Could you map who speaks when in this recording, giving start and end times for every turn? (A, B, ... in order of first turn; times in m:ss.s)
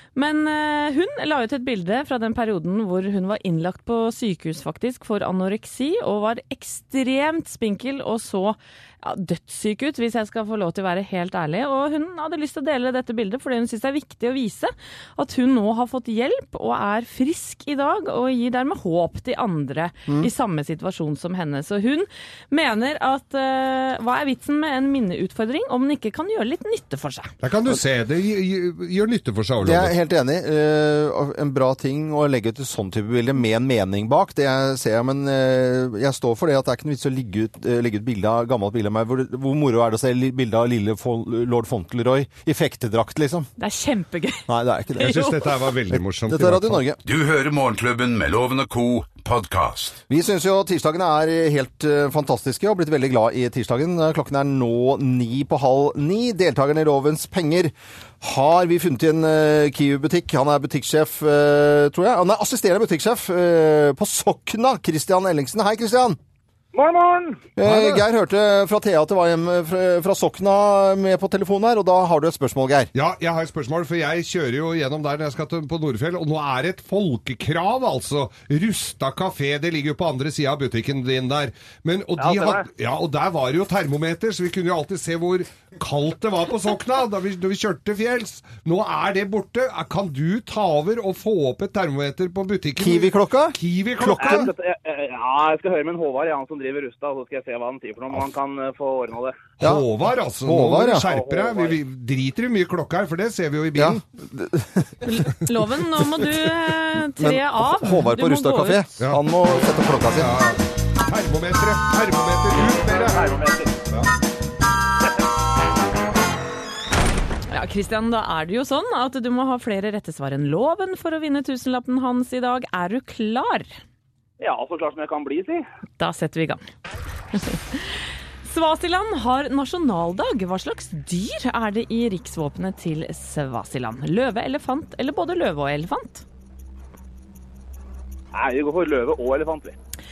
0:00.2-0:27.3 A
0:27.4-0:30.0 B
0:29.6-0:43.5 C
0:43.6-0:44.5 A
0:44.5-0:47.0 C
0:45.0-0:45.4 A
0:45.0-0:46.8 B
0:47.0-0:50.0 D
0:50.1-1:06.2 C
1:06.7-1:07.5 E
1:07.6-1:12.9 C
1:07.6-1:08.0 B
1:12.9-1:34.5 B
1:22.2-1:22.6 E
1:32.8-1:34.5 C
1:34.2-1:39.5 E
1:39.6-1:44.0 B
1:39.6-1:39.9 C
1:40.4-1:41.1 C
1:41.0-1:41.8 E
1:43.8-1:45.0 C
1:45.0-1:48.9 A
1:47.2-1:50.4 C
1:50.1-1:53.3 B
1:52.6-1:53.8 E
1:57.5-2:03.7 A
2:04.4-2:05.6 E
2:06.0-2:06.6 A
2:07.3-2:16.2 A
2:18.3-2:19.8 E